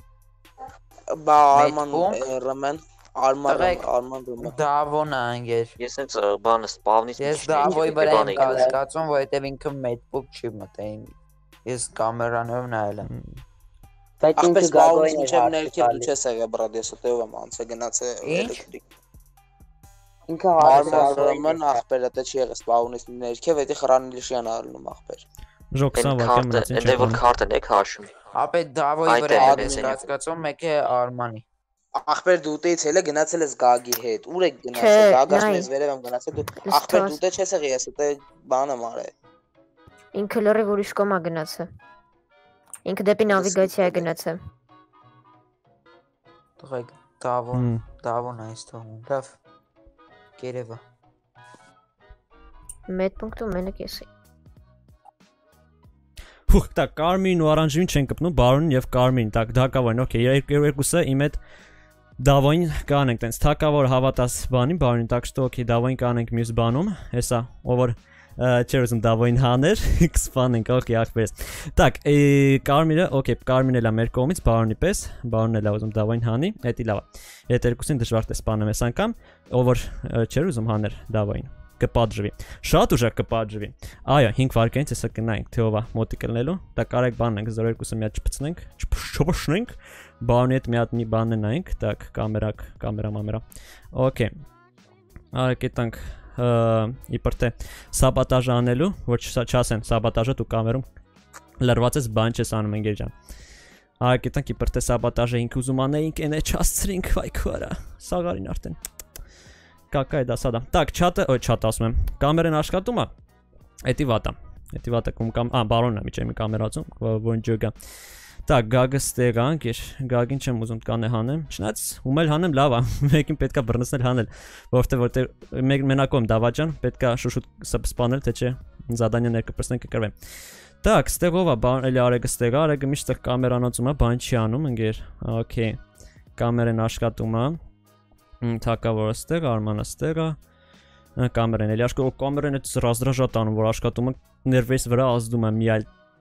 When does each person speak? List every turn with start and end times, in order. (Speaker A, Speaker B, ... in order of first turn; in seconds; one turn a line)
Speaker A: 1.1-4.6
Speaker B: 1.5-2.2
Speaker B: 3.5-3.9
Speaker B: 4.4-5.8
Speaker C: 5.8-8.7
Speaker B: 7.2-13.1
Speaker D: 8.2-8.8
Speaker A: 8.3-8.6
Speaker E: 13.0-13.4
Speaker D: 14.2-16.1
Speaker A: 14.4-18.8
Speaker B: 18.2-18.6
Speaker D: 20.3-21.6
Speaker A: 20.6-25.2
Speaker B: 20.6-21.3
Speaker E: 25.7-27.2
Speaker C: 26.0-28.1
Speaker B: 28.3-31.4
Speaker C: 29.1-30.0
Speaker A: 29.4-30.1
Speaker A: 32.0-39.1
Speaker F: 34.7-35.7
Speaker F: 36.6-37.2
Speaker F: 40.1-41.7
Speaker F: 42.9-44.4
Speaker A: 43.3-44.1
Speaker B: 46.6-49.4
Speaker E: 47.5-47.8
Speaker B: 50.4-50.8
Speaker F: 52.9-54.1
Speaker E: 56.5-61.4
Speaker E: 62.2-94.3
Speaker E: 95.3-100.9
Speaker E: 101.6-103.1
Speaker E: 104.0-108.8
Speaker E: 109.9-113.1
Speaker E: 113.8-117.7
Speaker E: 118.5-130.1
Speaker E: 130.8-135.8
Speaker E: 136.4-137.6
Speaker E: 138.4-140.4
Speaker E: 141.2-145.9